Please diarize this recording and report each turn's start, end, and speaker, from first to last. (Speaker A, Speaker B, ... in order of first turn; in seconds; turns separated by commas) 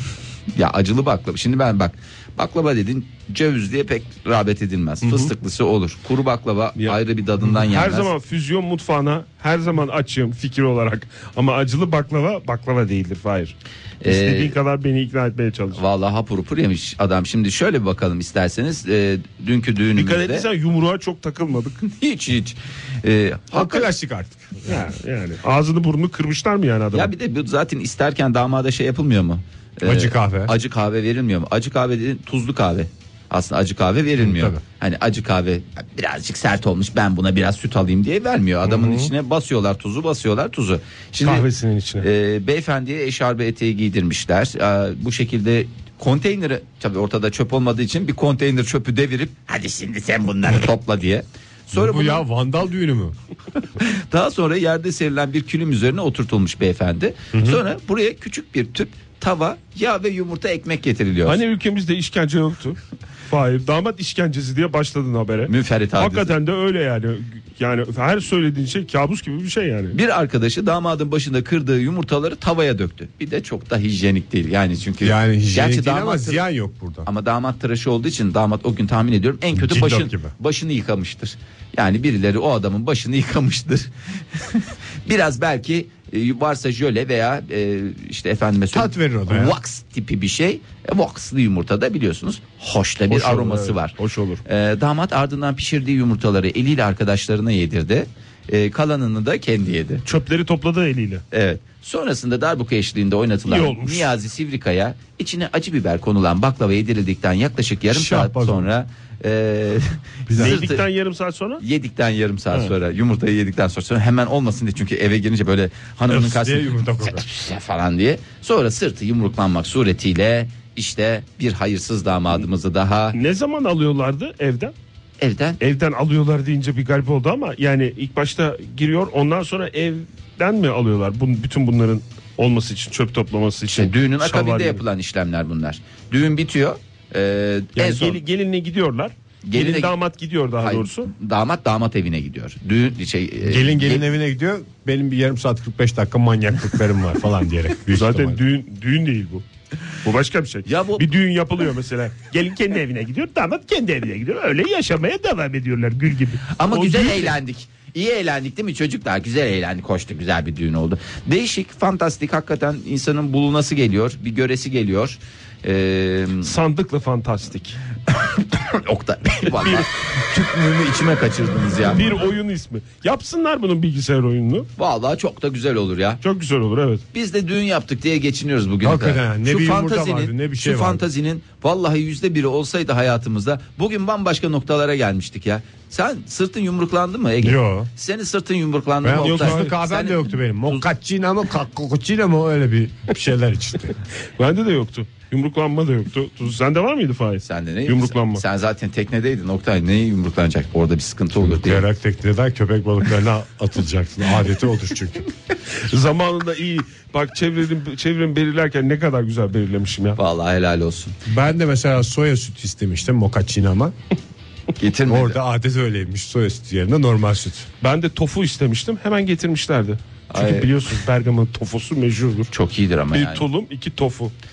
Speaker A: 0.5-8.1, Speaker B: 5.0-5.3, Speaker B: 6.8-15.8, Speaker A: 14.0-14.6, Speaker A: 15.8-20.5, Speaker B: 19.9-21.9, Speaker A: 21.8-23.9, Speaker C: 23.5-24.7, Speaker B: 24.7-27.1, Speaker A: 26.9-41.5, Speaker C: 29.8-30.5, Speaker C: 34.2-34.6, Speaker B: 38.6-39.1, Speaker B: 41.2-42.1, Speaker A: 42.0-52.2, Speaker C: 51.7-53.1, Speaker A: 53.8-61.4, Speaker C: 57.3-57.6, Speaker B: 61.2-70.0, Speaker A: 65.5-66.3, Speaker A: 69.9-76.4, Speaker C: 75.0-77.1, Speaker A: 77.0-93.9, Speaker C: 79.5-80.3, Speaker C: 88.7-89.6, Speaker B: 93.1-94.4, Speaker A: 94.5-100.0, Speaker B: 100.0-101.2, Speaker A: 101.3-110.8, Speaker B: 103.5-104.1, Speaker C: 107.9-108.7, Speaker C: 110.3-110.7, Speaker B: 110.4-111.6, Speaker A: 111.6-123.2, Speaker C: 116.1-117.2, Speaker B: 123.1-124.7, Speaker A: 125.2-125.6, Speaker B: 125.6-134.8, Speaker A: 133.7-138.2, Speaker B: 137.8-141.1, Speaker A: 139.4-139.9, Speaker A: 140.6-144.0, Speaker C: 143.4-148.4, Speaker B: 147.9-149.4, Speaker B: 150.0-157.3, Speaker A: 150.7-151.1, Speaker A: 156.5-166.5, Speaker B: 166.4-167.8, Speaker A: 168.1-172.0, Speaker B: 169.4-169.8, Speaker B: 171.9-174.7, Speaker A: 174.8-176.2, Speaker B: 176.2-177.0, Speaker A: 177.1-190.8, Speaker C: 178.8-181.0, Speaker C: 187.4-187.9, Speaker C: 189.0-194.0, Speaker B: 189.2-189.8, Speaker B: 194.3-198.4, Speaker A: 197.4-201.8, Speaker C: 201.3-205.2, Speaker B: 205.7-210.2, Speaker A: 210.2-211.2, Speaker C: 211.2-213.9, Speaker A: 214.8-215.4, Speaker C: 215.1-217.7, Speaker B: 217.8-222.5, Speaker A: 220.3-220.7, Speaker A: 222.5-223.4, Speaker B: 223.1-224.3